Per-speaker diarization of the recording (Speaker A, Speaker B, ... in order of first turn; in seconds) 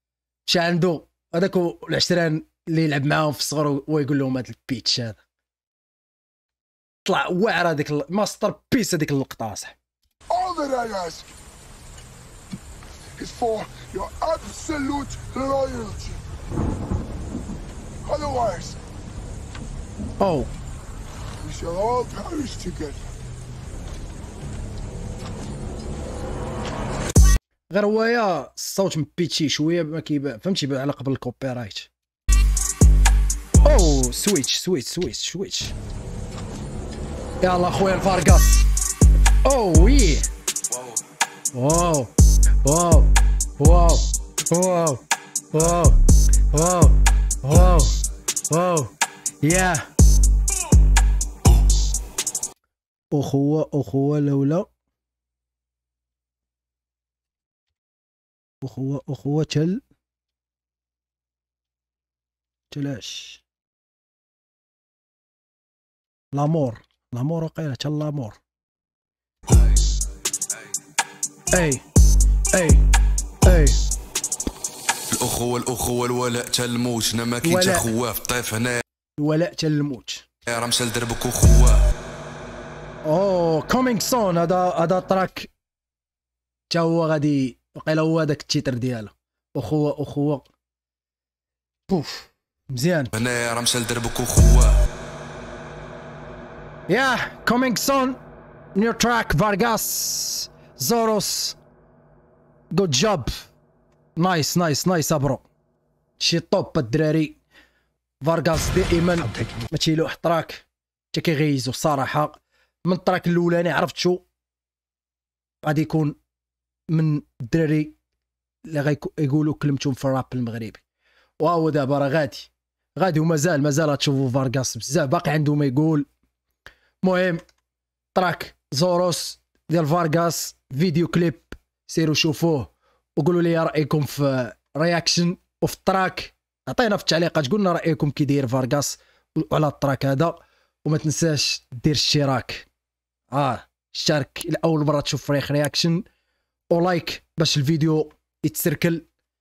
Speaker A: 0.5-5.2, 7.0-9.8, 20.2-20.5, 27.7-31.9, 33.6-35.8, 37.4-38.7, 39.4-40.2, 41.5-42.1, 42.6-46.0, 46.5-48.0, 48.5-49.9, 53.1-54.7, 58.6-59.8, 62.7-63.4, 66.3-68.4, 71.5-71.8, 72.5-72.8, 73.4-73.8, 77.4-77.9, 79.2-80.2, 83.0-85.5, 86.7-90.5, 91.9-93.1, 96.9-98.2, 98.8-101.6, 102.7-103.5, 104.2-105.4, 106.2-107.4, 108.2-114.2, 115.6-116.2, 116.9-118.0, 118.6-120.8, 121.4-126.1, 127.0-127.4, 128.1-142.7, 143.3-146.0, 146.7-149.0
Speaker B: 10.3-11.3, 13.2-16.2, 18.1-18.8, 21.4-23.1
Speaker C: 75.1-78.8, 80.5-81.9, 93.1-94.8